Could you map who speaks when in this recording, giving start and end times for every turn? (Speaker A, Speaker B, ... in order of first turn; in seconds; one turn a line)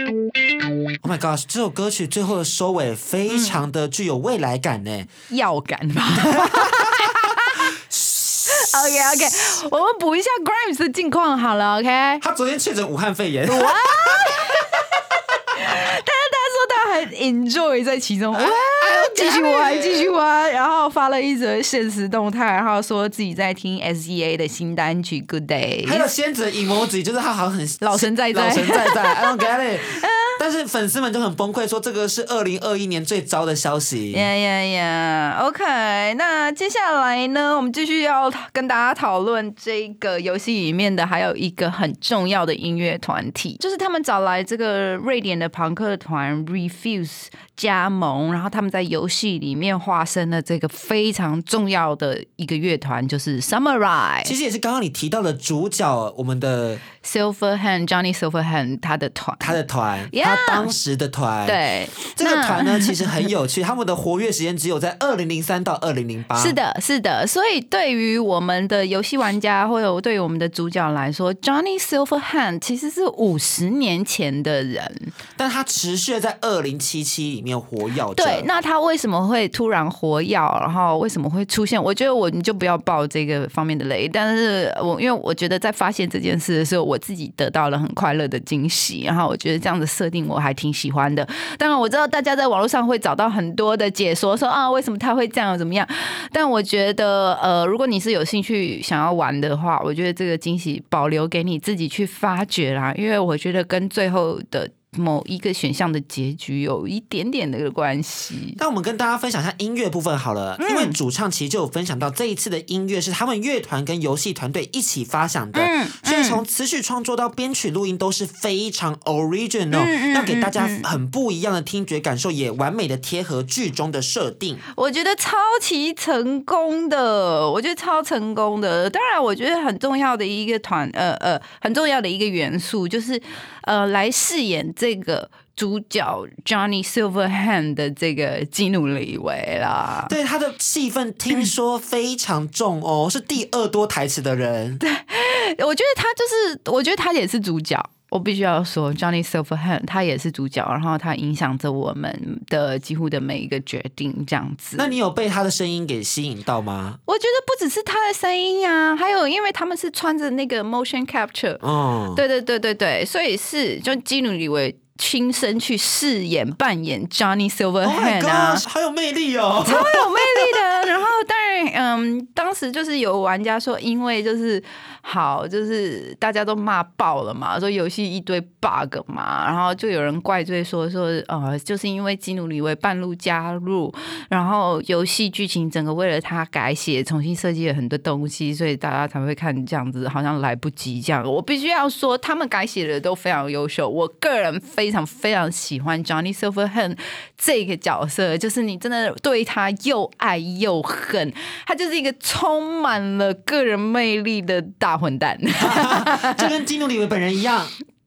Speaker A: 1.0-5.1
Speaker B: 3.3-3.6
Speaker B: 5.3-7.6
Speaker A: 6.3-7.0
Speaker A: 7.7-9.5
Speaker B: 8.5-12.2
Speaker A: 12.2-14.5
Speaker B: 13.5-15.0
Speaker B: 15.5-26.1
Speaker A: 18.3-20.1
Speaker A: 25.8-34.2
Speaker B: 27.8-30.4
Speaker B: 34.1-54.3
Speaker A: 54.2-56.8
Speaker B: 57.0-59.6
Speaker A: 59.4-61.6
Speaker B: 60.1-60.7
Speaker B: 61.5-63.2
Speaker A: 62.1-66.5
Speaker B: 66.3-75.1
Speaker A: 75.4-78.5
Speaker B: 78.2-108.6
Speaker A: 108.6-124.6
Speaker B: 110.6-111.0
Speaker B: 115.5-116.4
Speaker B: 119.7-120.9
Speaker B: 124.7-140.1
Speaker A: 140.1-144.8
Speaker B: 144.8-154.9
Speaker A: 154.8-157.0
Speaker B: 157.1-161.6
Speaker A: 161.6-162.2
Speaker B: 162.1-168.6
Speaker A: 167.8-170.6
Speaker B: 169.6-206.5
Speaker A: 205.6-207.7